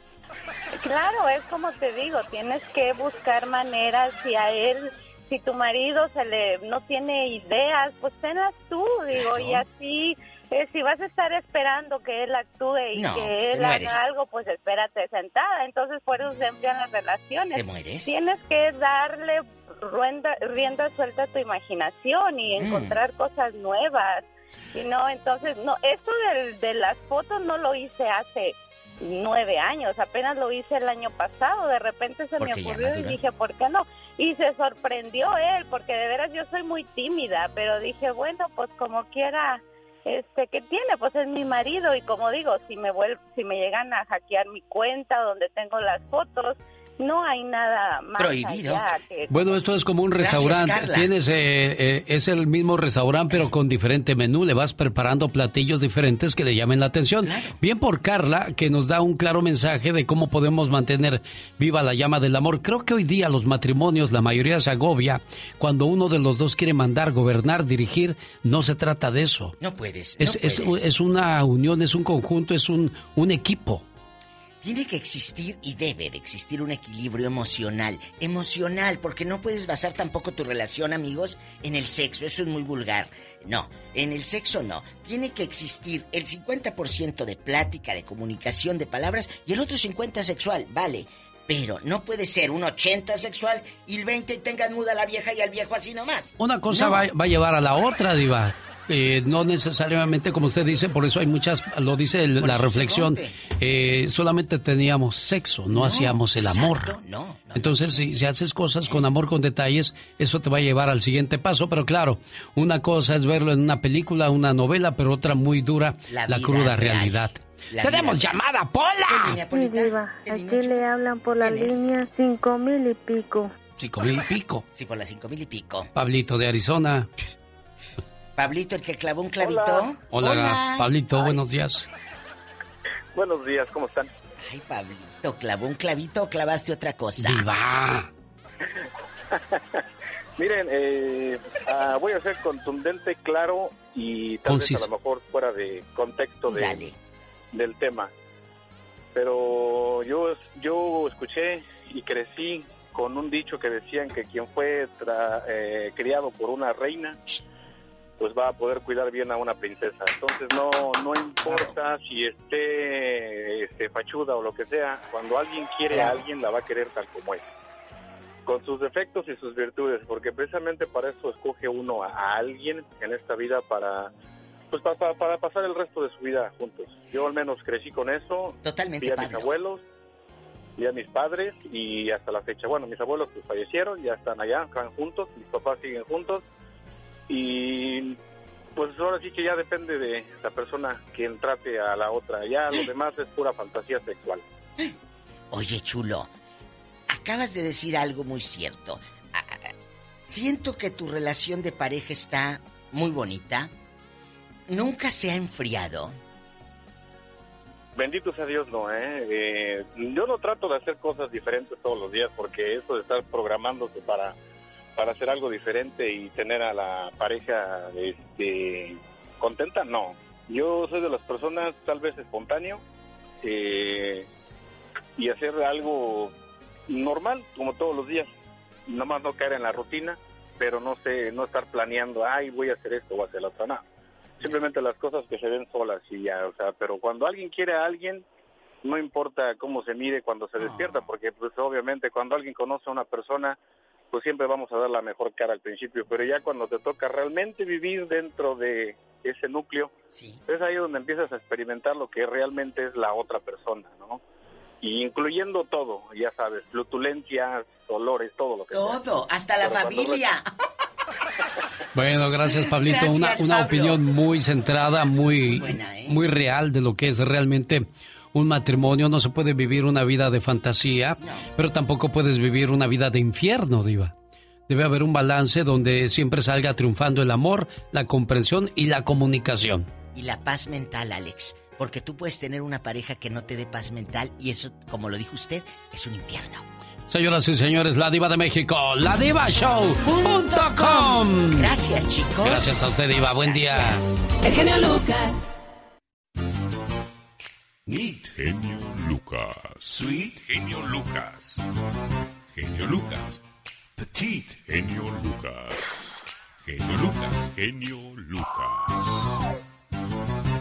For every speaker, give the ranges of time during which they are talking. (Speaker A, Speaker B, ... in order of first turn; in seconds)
Speaker A: 0.8-49.6
Speaker B: 9.1-9.6, 12.9-14.0, 17.6-18.2, 22.6-23.0, 32.4-33.2, 48.2-48.9, 50.2-51.1, 57.2-57.6, 69.6-70.8, 74.6-97.1, 102.4-103.3, 105.7-108.2, 116.1-118.4, 119.1-120.8, 121.4-121.8, 124.8-125.9, 128.4-130.9, 134.4-137.5, 146.5-146.9, 161.4-161.8, 165.9-166.2, 178.6-179.5, 195.5-196.3, 197.1-199.7, 200.3-203.7, 204.7-206.2, 250.1-250.4, 258.7-260.4, 262.9-263.9, 265.5-266.2, 280.1-286.7, 290.1-294.1
Speaker C: 49.3-69.5, 70.2-73.9, 96.4-106.9, 107.6-119.4, 123.8-124.6, 126.0-127.1, 130.1-131.8, 137.2-138.1, 144.5-144.9, 261.9-274.1, 274.7-279.9, 287.1-291.7, 292.4-294.0
Speaker D: 119.5-123.5
Speaker E: 129.4-129.8, 133.2-134.1, 139.3-139.6, 140.4-146.8, 147.5-148.1, 149.2-157.2, 158.2-167.5, 168.5-174.1, 174.7-179.8, 180.8-186.4, 187.3-188.2, 188.8-194.4, 208.0-214.3, 215.0-222.8, 223.4-224.3, 225.2-226.3, 226.9-228.3, 228.9-233.8, 234.4-238.2, 238.8-243.6, 244.1-249.9, 250.5-254.2, 254.8-259.0, 259.6-260.2
Speaker F: 298.0-301.6, 302.6-303.3, 304.4-305.8, 306.7-308.8